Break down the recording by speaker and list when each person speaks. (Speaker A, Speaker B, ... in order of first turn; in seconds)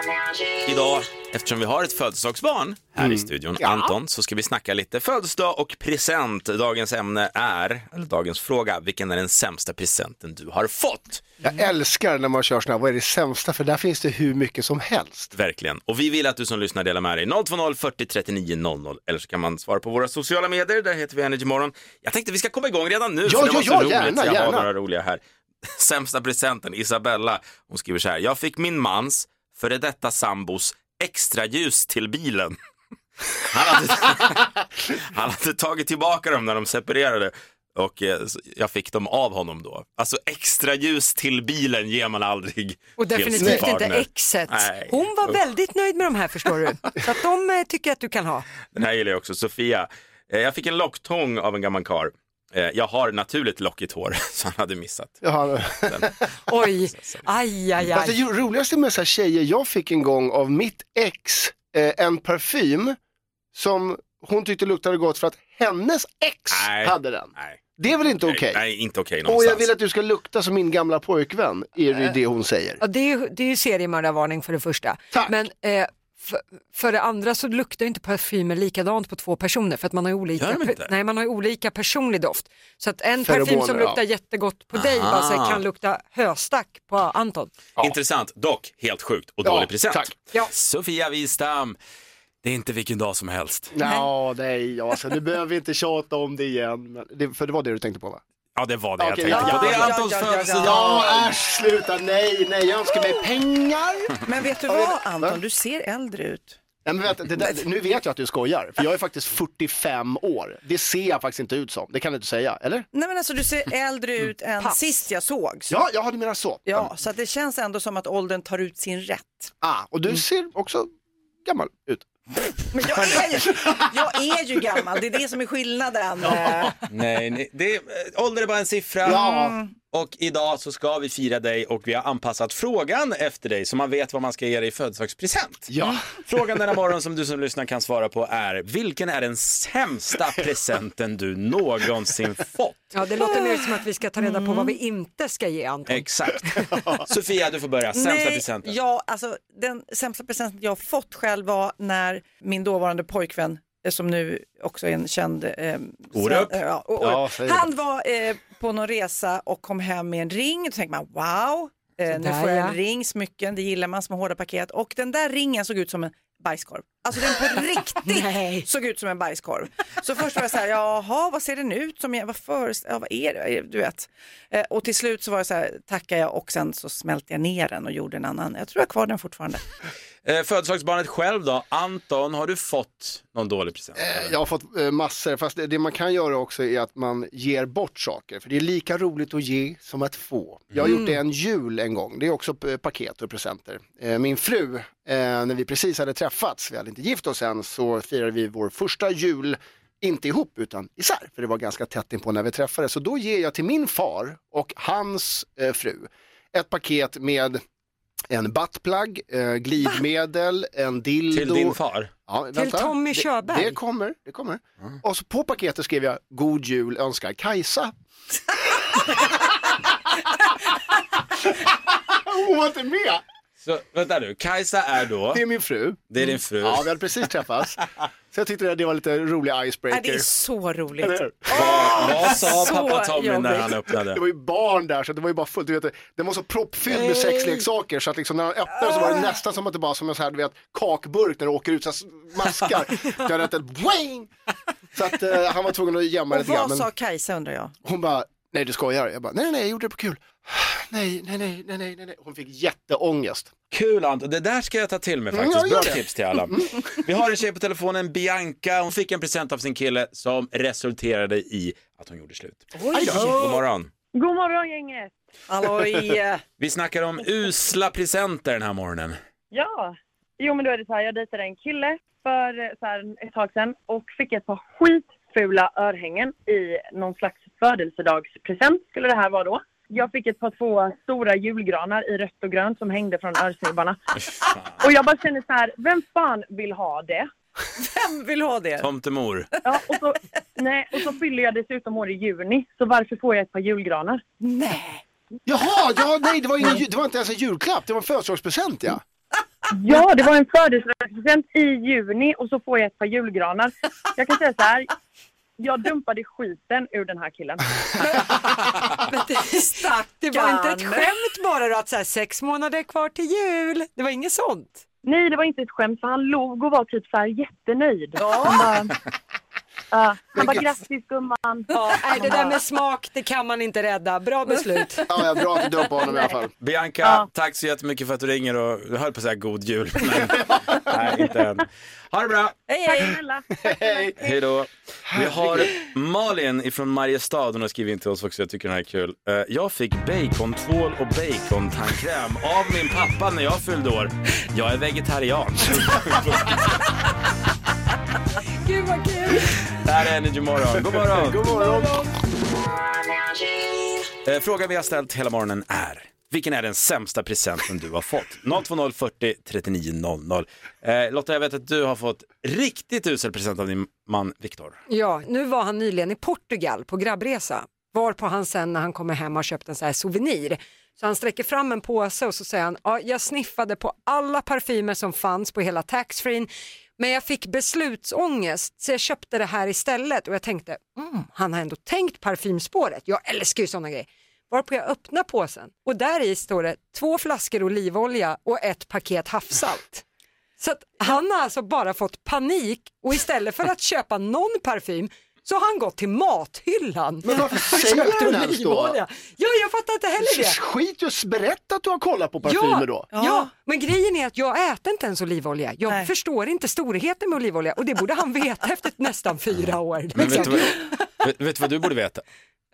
Speaker A: 0.7-11.2, 15.3-32.6, 33.5-45.4, 48.7-55.2, 55.8-56.1, 56.8-57.2, 66.5-67.6, 68.2-69.7, 80.4-80.9, 84.7-85.6, 87.8-91.8, 92.4-93.7, 98.5-101.0, 126.9-129.3, 129.9-135.7, 136.2-142.9, 145.9-148.7, 156.1-156.6, 180.2-184.3, 211.3-212.1, 223.6-225.4, 226.1-227.0, 231.5-234.2, 253.7-263.9, 266.6-269.2, 284.5-284.8, 288.8-289.5, 326.6-332.6, 334.2-346.7, 349.8-351.5, 354.2-364.8, 410.1-412.2
Speaker B: 3.0-3.9, 11.4-15.3, 23.2-24.7, 43.4-43.7, 55.2-56.2, 57.8-63.0, 63.5-68.6, 69.2-72.8, 83.2-84.0, 89.4-90.1, 93.7-98.2, 99.0-100.0, 100.6-105.4, 106.8-112.9, 115.7-116.9, 119.6-120.9, 121.4-123.3, 129.0-129.6, 135.7-136.0, 157.0-157.7, 183.9-207.6, 208.3-217.9, 222.1-223.2, 225.3-227.8, 228.3-230.2, 231.0-232.3, 234.0-244.3, 244.9-246.9, 247.8-253.5, 255.3-256.7, 262.9-263.5, 295.4-299.0, 320.3-320.7, 325.1-326.5, 335.1-335.7, 351.0-352.1, 397.2-399.0, 400.2-403.1
Speaker C: 43.0-48.5, 56.5-58.2, 72.8-87.5, 142.9-147.0, 162.1-162.8, 168.0-168.7, 212.5-213.8, 308.1-314.8, 321.7-325.1, 348.6-349.6, 364.9-390.0, 390.6-400.6, 402.4-410.9
Speaker D: 99.3-101.3, 104.2-106.6, 112.9-115.7, 116.7-119.5, 122.7-126.8, 129.1-129.7, 144.2-144.8, 147.9-179.6, 229.9-233.7, 237.0-237.5, 246.3-247.7, 262.8-263.4, 265.5-266.4, 287.8-288.9, 294.4-295.0, 309.7-311.1, 318.2-318.9, 322.2-322.6, 332.7-333.2, 403.1-403.5
Speaker E: 264.1-265.1, 269.5-284.0, 284.8-287.3, 289.6-294.2, 299.7-304.9, 305.6-308.2, 315.0-318.9, 319.9-321.7, 326.1-326.3, 332.8-334.3